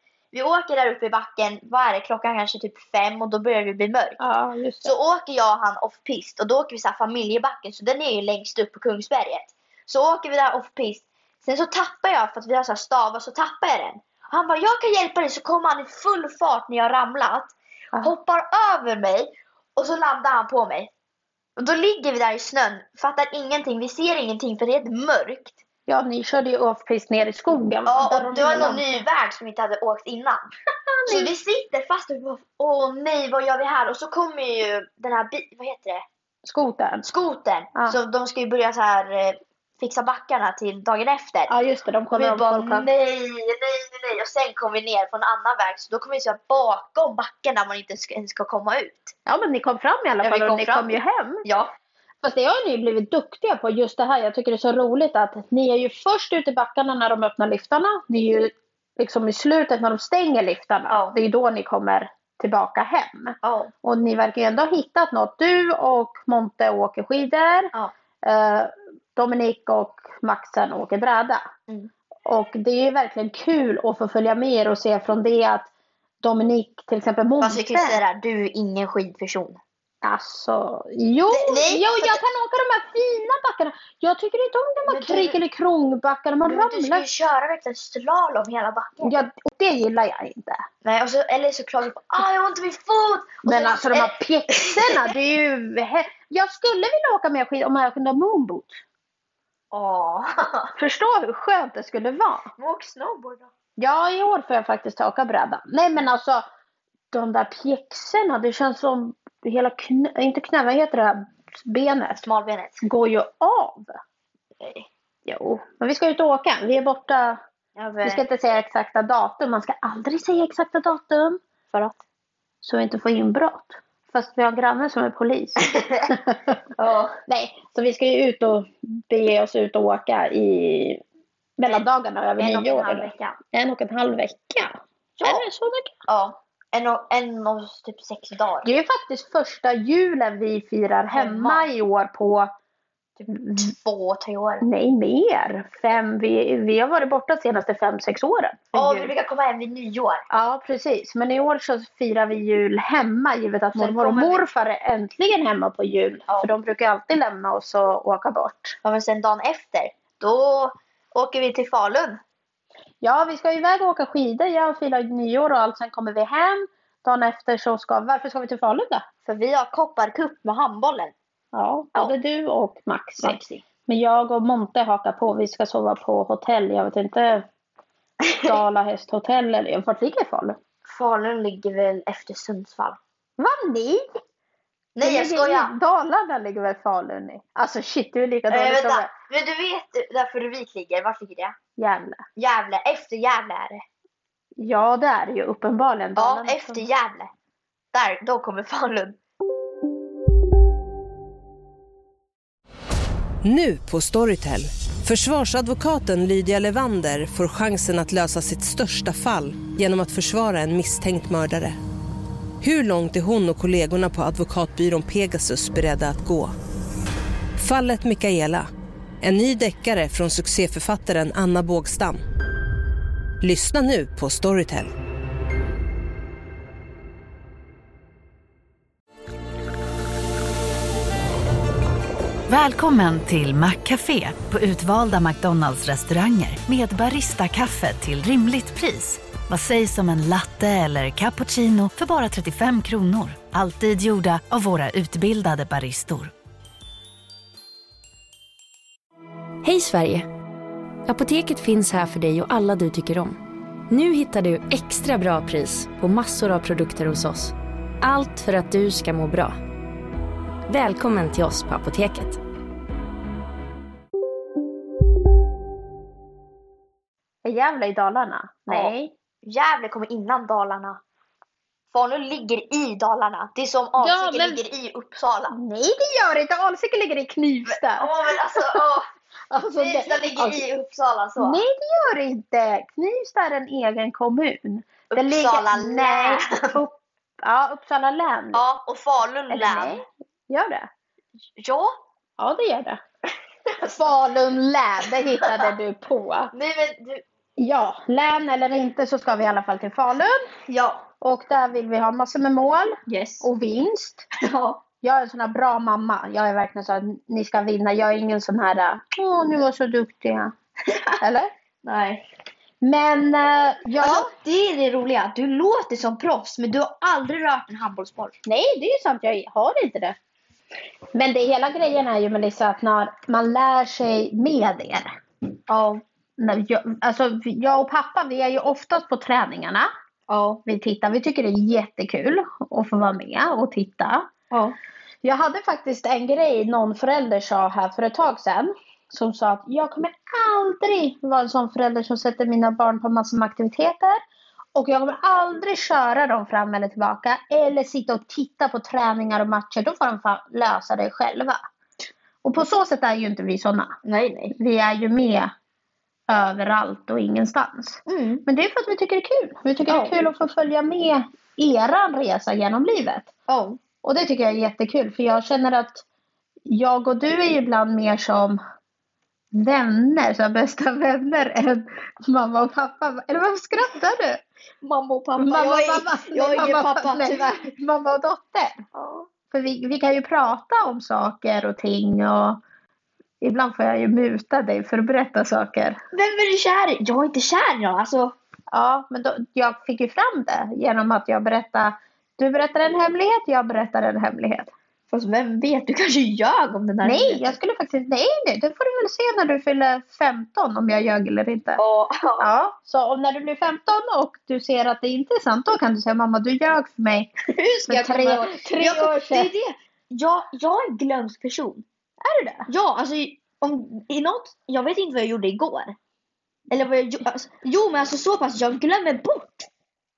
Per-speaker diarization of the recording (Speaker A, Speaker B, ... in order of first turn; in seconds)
Speaker A: 0.3-4.2, 4.8-20.9, 21.6-25.6, 27.9-30.5, 31.1-36.0, 37.0-41.5, 42.1-49.1, 50.2-51.7, 60.9-61.1, 63.4-63.7, 77.4-79.6, 81.3-82.2, 84.9-85.4, 86.4-89.2, 90.8-95.1, 99.7-100.7, 102.6-103.5, 112.2-112.8, 114.6-114.8, 117.8-118.2, 121.7-122.0, 125.6-126.1, 126.8-127.2, 132.4-133.4, 135.2-135.4, 136.1-138.7, 141.1-141.7, 143.4-144.7, 148.7-150.2, 153.7-154.4, 158.8-162.2, 169.2-171.1, 173.2-173.6, 178.2-178.6, 180.8-183.0, 184.9-185.7, 188.5-191.6, 192.4-193.8, 196.2-197.3, 197.9-199.2, 268.7-271.0, 271.9-275.6, 277.7-279.1, 279.8-281.6, 285.1-286.8, 288.5-290.0, 291.6-292.0, 293.7-294.0, 295.4-295.7, 296.5-297.2, 300.7-301.1, 303.1-303.5, 304.4-304.8, 310.9-311.2, 311.8-312.3, 314.0-318.4, 325.7-326.0, 330.3-330.6, 334.5-334.8, 354.0-354.5, 358.1-358.4, 359.9-360.1, 363.5-363.8, 374.8-377.7, 378.9-379.3, 386.1-388.4, 395.1-397.5, 401.8-402.5, 407.5-411.8, 412.7-415.9, 416.7-419.7
Speaker B: 4.2-4.9, 25.9-28.9, 30.9-31.3, 36.4-37.0, 41.5-42.9, 49.2-51.4, 52.2-71.4, 72.2-75.7, 76.2-78.0, 80.0-87.0, 89.0-90.6, 93.4-98.8, 100.8-102.5, 103.8-106.4, 107.1-112.2, 112.8-113.9, 115.2-117.4, 118.0-121.4, 122.6-126.6, 127.3-131.0, 131.6-135.9, 138.6-142.5, 143.3-143.7, 144.6-149.1, 150.3-158.8, 163.0-169.1, 171.5-177.5, 178.4-180.6, 183.4-184.2, 185.0-189.1, 191.8-192.2, 194.6-196.8, 267.4-269.1, 274.0-274.6, 275.5-278.8, 279.5-280.6, 281.4-288.6, 289.5-290.9, 292.4-293.0, 293.9-296.5, 297.6-300.5, 301.2-304.2, 305.0-310.5, 311.2-311.5, 312.8-314.3, 318.4-320.2, 321.1-325.2, 326.4-329.9, 330.6-334.3, 335.2-344.2, 344.7-351.6, 352.4-354.0, 354.5-355.5, 356.3-363.3, 364.0-366.0, 366.6-368.6, 369.5-374.4, 375.4-378.9, 379.5-382.6, 383.4-386.0, 388.7-394.7, 397.0-401.8, 402.4-407.3, 407.9-409.5, 412.2-412.7
Speaker C: 203.4-211.8, 212.6-216.5, 217.6-218.7, 219.2-222.2, 223.4-224.9
Speaker D: 232.5-246.3
Speaker E: 249.6-250.3, 251.1-259.6, 260.7-262.4